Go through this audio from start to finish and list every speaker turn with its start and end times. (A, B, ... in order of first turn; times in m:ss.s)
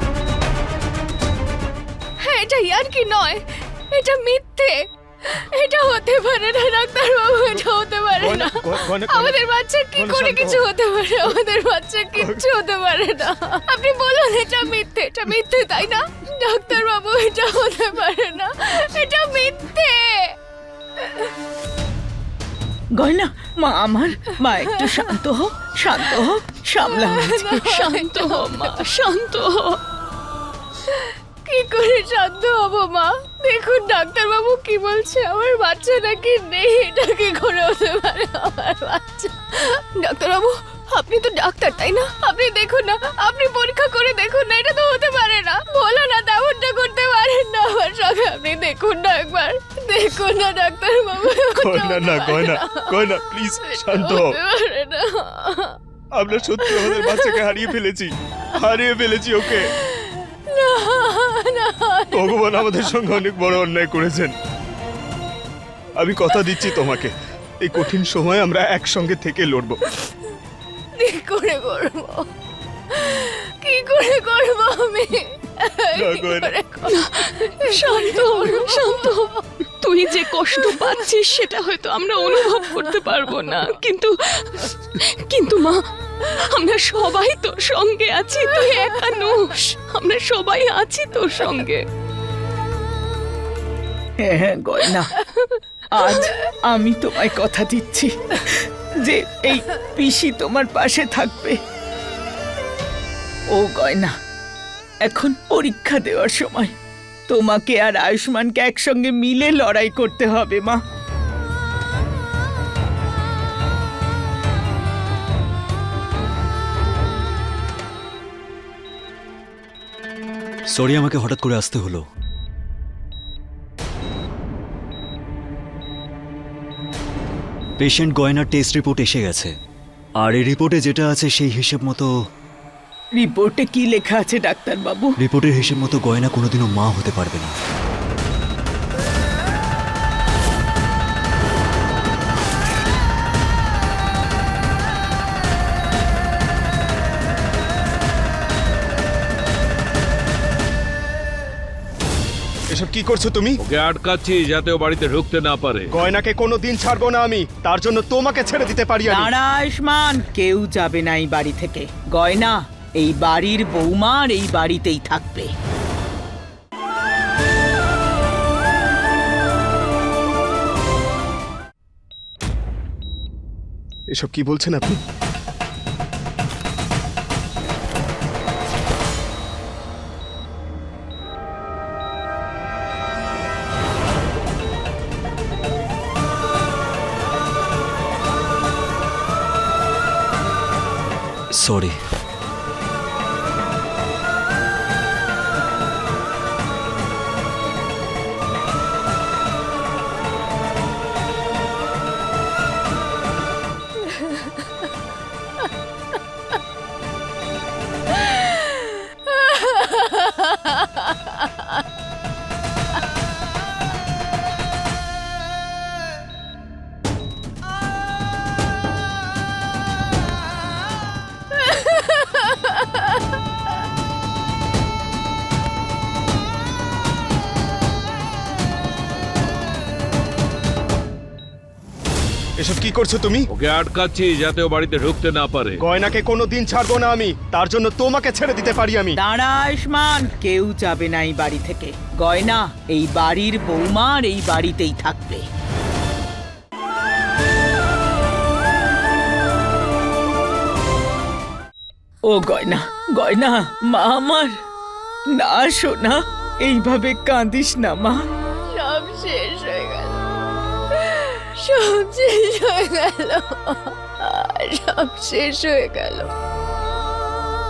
0:02.2-0:20.4 A
0:08.2-0:09.4 B
0:10.0-0:10.7 B
0:12.2-0:12.4 B
0:21.0-0:21.3 A
0:23.0-0:27.6 C
0:26.8-0:28.9 A
0:27.7-0:29.8 D
0:30.9-0:55.8 A
0:51.5-0:54.4 B
0:56.2-0:59.7 B
0:56.6-0:57.6 A
0:59.5-1:02.9 A
1:02.1-1:04.4 B
1:06.0-1:09.8 B
1:11.0-1:12.3 A
1:12.9-1:19.5 A
1:16.0-1:16.5 B
1:16.9-1:19.3 D
1:19.8-1:25.8 D
1:20.2-1:21.0 A
1:26.5-1:31.8 D
1:34.2-1:35.1 C
1:35.9-1:41.6 C
1:43.5-1:44.1 C
1:45.0-1:46.7 C
1:47.3-1:50.8 C
2:00.7-2:02.0 E
2:07.8-2:09.5 E
2:10.2-2:12.1 E
2:13.2-2:15.1 C
2:15.2-2:17.5 E
2:32.7-2:33.6 B
2:33.6-2:35.9 F
2:35.9-2:39.3 B
2:39.1-2:45.5 C
2:54.1-2:55.0 B
3:11.6-3:12.0 E
3:24.0-3:24.6 A
3:29.3-3:31.5 A
3:41.5-3:42.7 A
3:52.6-3:53.5 B
3:53.5-3:55.8 F
3:55.8-3:59.2 B
3:59.2-4:05.4 C
4:12.3-4:14.5 C
4:15.3-4:18.2 C
4:18.7-4:20.3 A
4:20.9-4:26.3 A